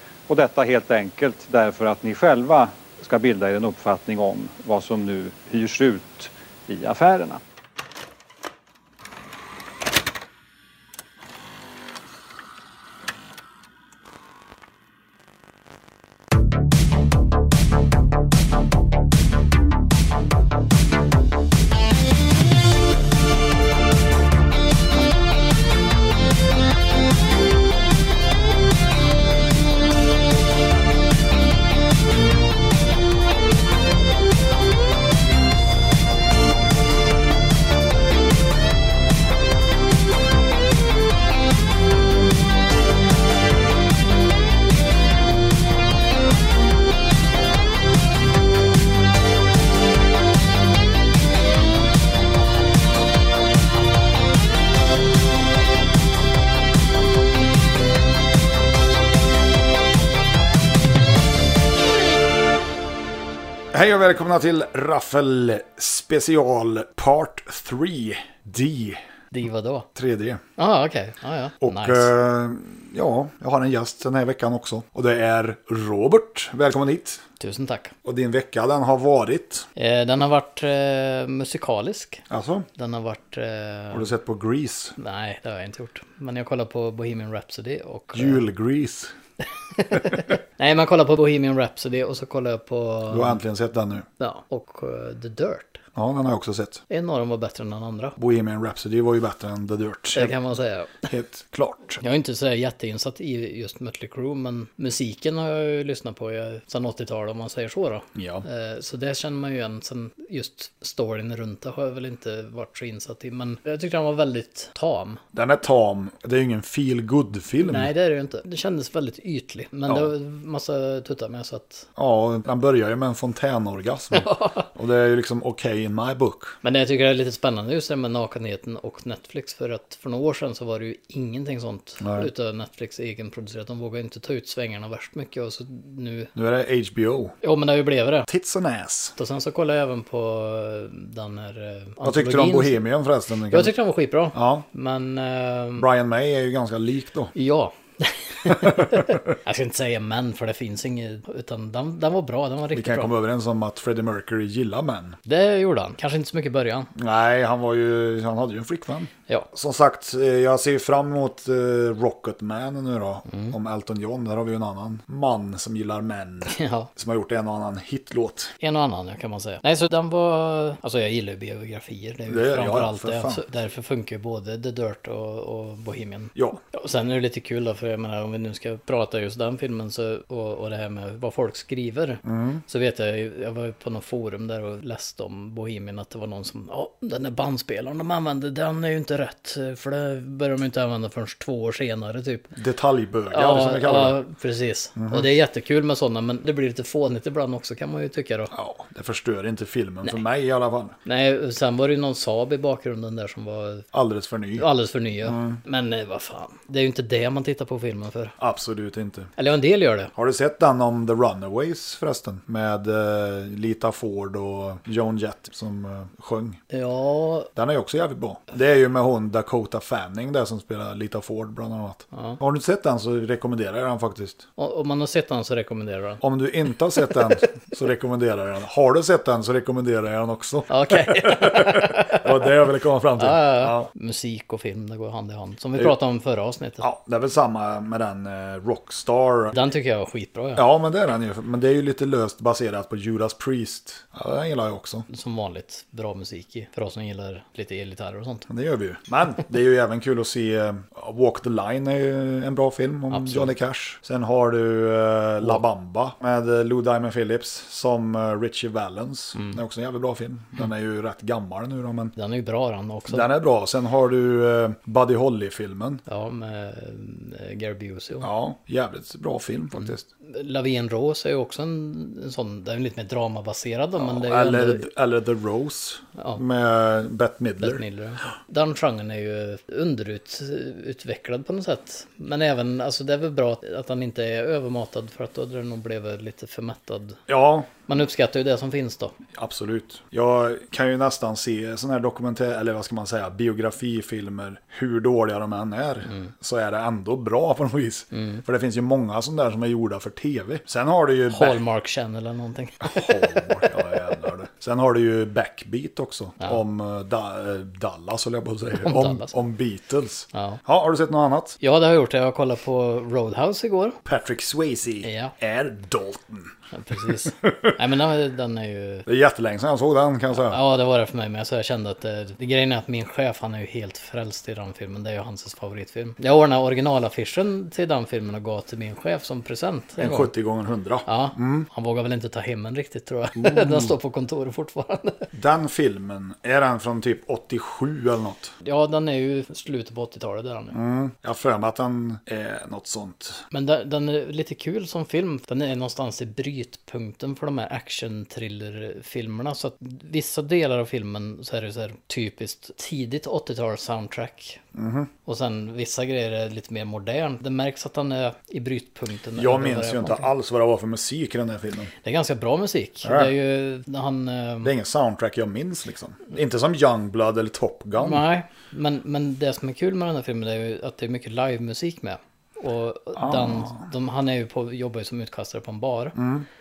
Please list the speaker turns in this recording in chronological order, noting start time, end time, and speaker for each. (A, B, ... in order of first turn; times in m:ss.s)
0:00.3-0:07.4 A
1:03.7-1:09.0 B
1:09.3-1:09.9 C
1:09.9-1:10.4 B
1:10.6-1:12.1 C
1:11.6-1:17.2 B
1:17.4-1:17.9 C
1:18.0-1:19.7 B
1:19.8-1:24.0 C
1:22.3-1:22.6 B
1:23.9-1:24.9 B
1:25.0-1:28.4 C
1:28.1-1:29.1 B
1:29.8-1:33.4 C
1:33.1-1:34.0 B
1:34.2-1:35.8 C
1:35.9-1:36.8 B
1:36.9-1:38.2 C
1:38.2-1:40.3 B
1:40.1-1:41.0 C
1:41.1-1:42.0 B
1:42.0-1:55.2 C
1:48.1-1:48.4 B
1:55.3-1:57.9 B
1:57.6-2:01.9 C
1:59.9-2:00.1 B
2:02.0-2:06.6 B
2:04.1-2:04.7 C
2:06.6-2:16.3 C
2:12.0-2:12.3 B
2:16.3-2:17.4 B
2:17.4-2:18.3 C
2:18.3-2:19.1 B
2:19.2-2:22.8 C
2:22.0-2:23.7 B
2:23.5-2:25.9 C
2:24.3-2:24.6 B
2:25.8-2:27.3 B
2:27.3-2:33.1 C
2:28.5-2:29.3 B
2:32.7-2:35.2 B
2:35.2-2:36.9 C
2:36.9-2:48.5 B
2:43.3-2:43.5 C
2:46.5-2:46.9 C
2:48.6-3:12.5 C
2:52.3-2:53.4 B
2:56.3-2:56.6 B
3:02.2-3:02.6 B
3:12.5-3:14.2 B
3:13.3-3:18.5 C
3:15.0-3:15.3 B
3:18.5-3:21.0 B
3:21.0-3:23.9 C
3:23.9-3:24.7 B
3:24.6-3:28.3 C
3:25.2-3:25.6 B
3:28.4-3:29.3 B
3:29.4-3:30.1 C
3:30.2-3:36.6 B
3:36.7-3:37.5 C
3:37.5-3:44.4 B
3:42.1-3:42.4 C
3:44.6-3:46.2 C
3:46.2-3:53.9 B
3:50.7-3:52.4 C
3:53.2-3:56.8 C
3:56.8-3:59.6 B
3:59.5-4:00.6 C
4:00.6-4:05.0 B
4:05.1-4:08.5 C
4:08.5-4:22.1 B
4:13.1-4:13.5 C
4:22.2-4:23.3 C
4:23.1-4:26.0 B
4:26.1-4:28.3 C
4:28.2-4:30.0 B
4:29.8-4:34.9 C
4:34.0-4:37.8 B
4:37.6-4:47.2 C
4:47.3-4:47.7 B
4:47.9-4:49.2 C
4:49.3-5:01.6 B
4:56.0-4:56.3 C
4:58.1-4:58.4 C
5:01.3-5:03.8 C
5:02.8-5:11.6 B
5:08.8-5:09.3 C
5:10.3-5:10.6 C
5:11.6-5:14.0 C
5:14.0-5:16.5 B
5:15.0-5:15.3 C
5:16.7-5:19.1 C
5:17.4-5:17.7 B
5:19.0-5:20.6 B
5:20.3-5:30.3 C
5:30.0-5:31.7 B
5:31.0-5:35.3 C
5:33.3-5:33.9 B
5:35.3-5:38.5 B
5:38.6-5:40.8 C
5:40.7-5:43.4 B
5:43.5-5:54.6 C
5:54.7-5:55.1 B
5:55.2-6:00.3 C
5:59.4-6:01.9 B
6:02.0-6:04.7 C
6:03.0-6:03.3 B
6:04.6-6:08.2 B
6:08.0-6:16.2 C
6:13.2-6:13.8 B
6:16.2-6:16.4 B